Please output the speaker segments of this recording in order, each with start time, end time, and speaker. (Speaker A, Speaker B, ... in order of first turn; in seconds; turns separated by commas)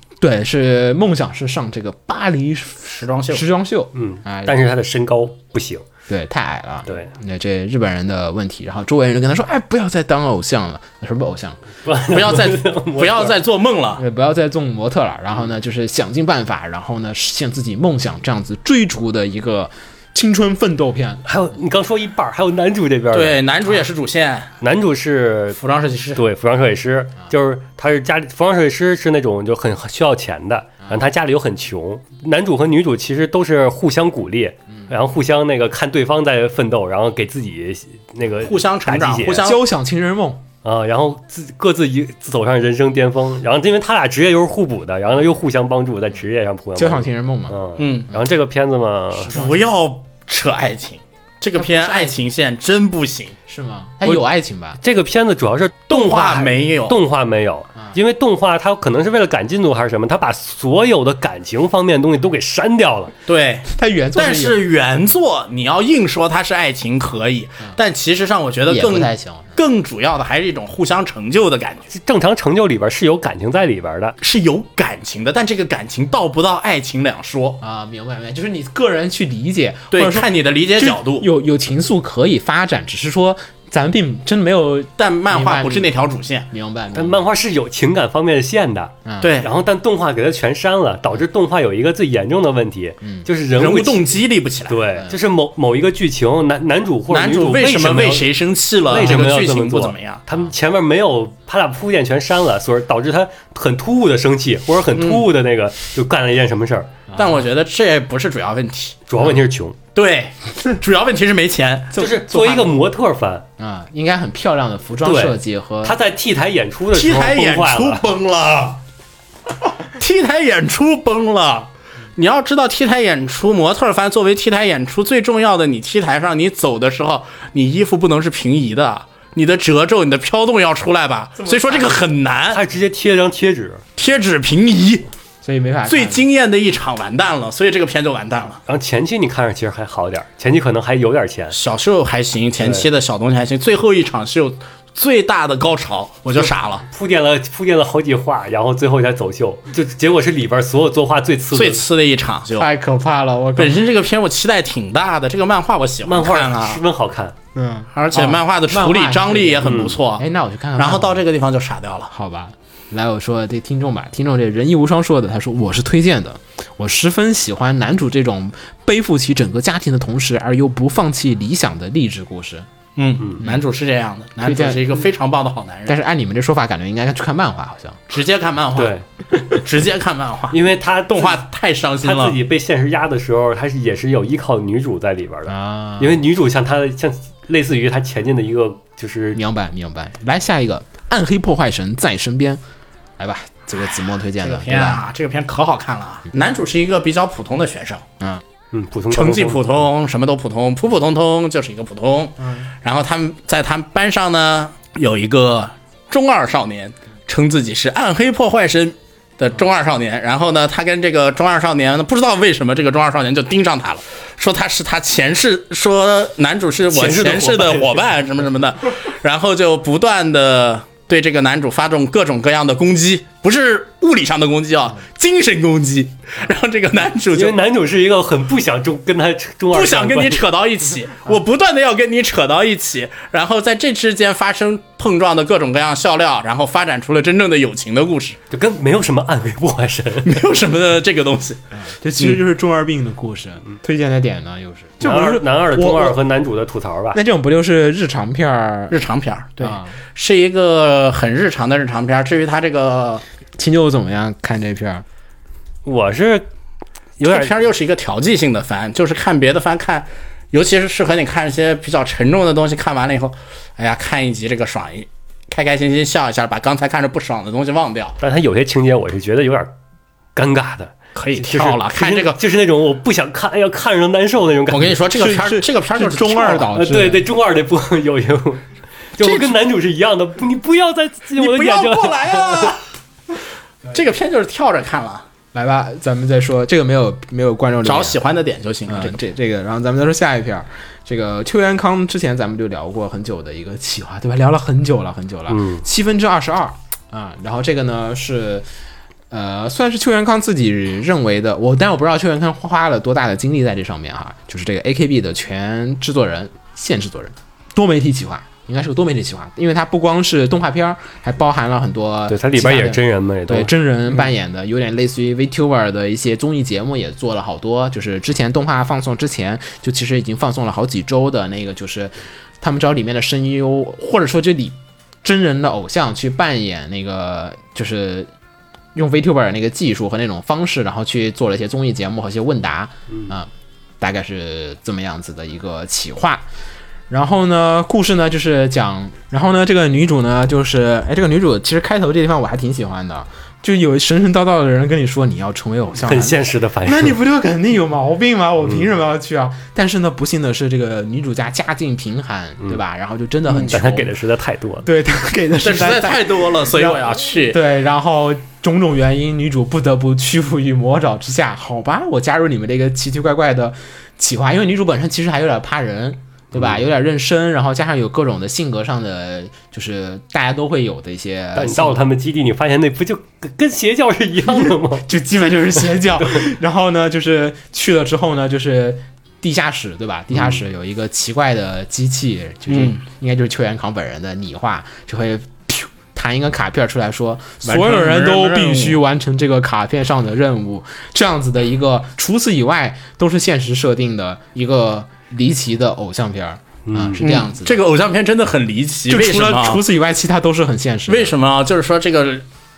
Speaker A: 0.2-4.6, Speaker B: 2.9-3.5, Speaker C: 3.9-5.8, Speaker A: 6.1-11.6, Speaker C: 11.8-13.3, Speaker B: 12.1-14.0, Speaker A: 14.0-21.2, Speaker C: 21.3-23.4, Speaker B: 23.1-24.5, Speaker C: 24.6-25.6, Speaker B: 25.6-26.2, Speaker C: 26.2-39.5, Speaker B: 38.4-39.6, Speaker A: 39.4-40.4, Speaker C: 40.6-49.4, Speaker A: 46.8-47.6, Speaker B: 47.8-48.1, Speaker A: 49.3-49.6, Speaker B: 49.3-53.4, Speaker A: 51.6-52.1, Speaker A: 53.5-54.8, Speaker C: 54.8-63.1, Speaker B: 55.9-57.0, Speaker B: 63.3-71.9, Speaker A: 63.7-64.6, Speaker A: 68.7-69.6, Speaker C: 71.9-74.2, Speaker B: 74.2-77.6, Speaker A: 77.6-85.9, Speaker B: 79.9-81.3, Speaker B: 85.0-86.5, Speaker A: 86.5-87.3, Speaker C: 86.9-94.2, Speaker A: 89.0-89.3, Speaker B: 89.2-89.5, Speaker B: 93.6-94.8, Speaker C: 94.7-98.3, Speaker B: 97.1-100.2, Speaker C: 98.9-106.9, Speaker A: 99.0-99.2, Speaker B: 104.9-105.2, Speaker A: 107.1-107.4, Speaker B: 107.2-109.0, Speaker C: 109.1-109.8, Speaker B: 110.0-112.1, Speaker C: 112.0-113.5, Speaker A: 112.0-112.7, Speaker A: 113.6-116.0, Speaker C: 115.0-118.0, Speaker B: 116.9-118.8, Speaker B: 120.0-132.6, Speaker A: 131.4-132.1, Speaker C: 132.5-133.8, Speaker B: 134.0-135.1, Speaker A: 135.4-136.2, Speaker B: 135.9-138.6, Speaker C: 138.7-141.6, Speaker B: 141.5-146.8, Speaker C: 142.6-142.9, Speaker C: 146.8-151.8, Speaker B: 151.5-152.7, Speaker A: 152.6-153.8, Speaker B: 153.6-156.8, Speaker C: 156.1-157.3, Speaker A: 157.6-161.2, Speaker B: 157.9-160.3, Speaker C: 159.6-160.0, Speaker B: 160.8-162.1, Speaker A: 162.1-172.7, Speaker B: 173.0-176.0, Speaker A: 174.4-174.9, Speaker A: 175.9-178.0, Speaker B: 178.1-179.0, Speaker C: 178.8-179.1, Speaker B: 179.5-182.4, Speaker C: 180.5-181.4, Speaker C: 182.0-189.4, Speaker A: 185.5-186.2, Speaker A: 189.3-192.6, Speaker A: 193.2-195.0, Speaker B: 194.4-198.0, Speaker C: 198.7-199.8, Speaker B: 199.1-227.6, Speaker A: 202.4-202.7, Speaker C: 216.9-218.1, Speaker C: 227.3-230.4, Speaker B: 229.7-238.4, Speaker C: 238.5-240.4, Speaker B: 240.2-241.6, Speaker A: 241.7-246.2, Speaker C: 245.0-247.2, Speaker A: 247.1-249.0, Speaker B: 248.9-253.2, Speaker A: 249.6-250.0, Speaker A: 253.6-255.1, Speaker C: 255.8-256.5, Speaker C: 257.2-257.5, Speaker B: 257.2-268.2, Speaker C: 268.2-269.7, Speaker C: 270.4-275.0, Speaker B: 271.1-272.4, Speaker B: 274.7-276.7, Speaker A: 275.1-277.2, Speaker C: 276.7-282.8, Speaker B: 279.2-279.5, Speaker B: 281.4-282.8, Speaker B: 283.9-285.3, Speaker A: 285.5-288.2, Speaker B: 287.8-289.2, Speaker A: 288.9-298.7, Speaker C: 295.5-295.8, Speaker A: 299.3-328.3, Speaker C: 312.3-313.7, Speaker A: 328.9-333.5, Speaker A: 334.0-336.4, Speaker A: 337.1-354.1, Speaker C: 346.0-347.2, Speaker C: 353.7-354.9, Speaker A: 354.8-372.0, Speaker B: 355.6-357.6, Speaker C: 366.5-366.8, Speaker C: 371.6-375.1, Speaker A: 374.5-397.8, Speaker B: 382.7-383.0, Speaker B: 387.6-389.0, Speaker C: 396.9-397.2, Speaker B: 397.2-399.8, Speaker A: 399.1-401.3, Speaker B: 401.1-402.5